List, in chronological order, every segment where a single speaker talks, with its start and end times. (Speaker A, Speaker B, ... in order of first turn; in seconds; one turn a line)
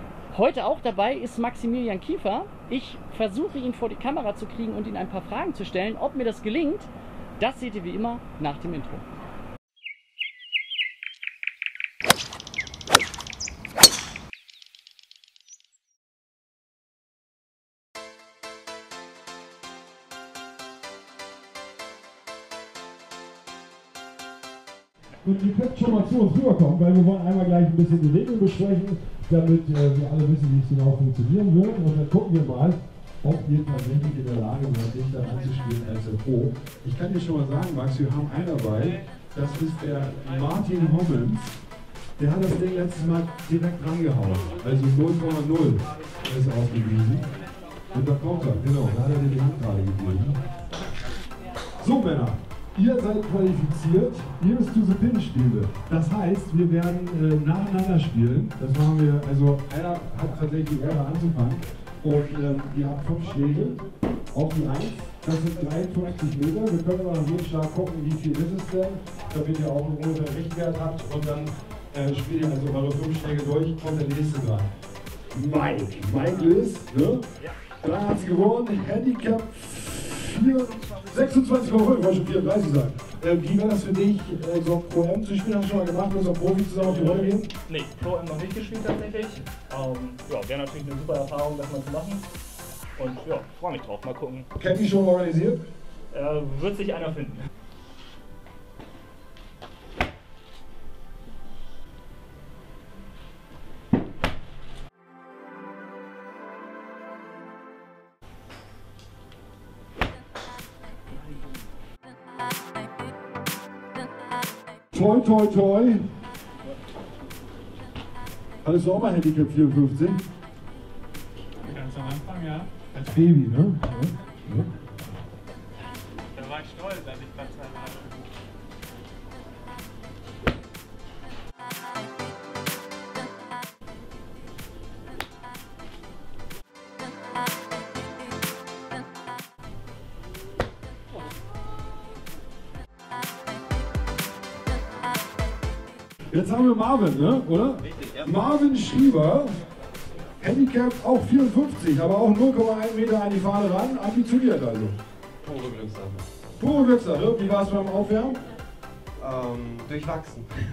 Speaker A: 0.3-9.1
Speaker B: 25.2-41.5
Speaker B: 42.2-47.2
Speaker B: 47.9-50.4
Speaker B: 51.8-74.7
Speaker B: 75.3-77.3
Speaker B: 77.8-87.5
Speaker C: 86.8-92.3
Speaker C: 93.0-94.5
Speaker B: 94.6-95.6
Speaker C: 96.1-97.5
Speaker B: 114.9-116.0
Speaker B: 118.6-120.2
Speaker D: 121.6-122.9
Speaker B: 122.9-124.7
Speaker D: 126.3-128.2
Speaker B: 146.3-149.5
Speaker B: 150.4-154.9
Speaker E: 155.4-156.5
Speaker B: 156.6-158.4
Speaker E: 159.2-160.5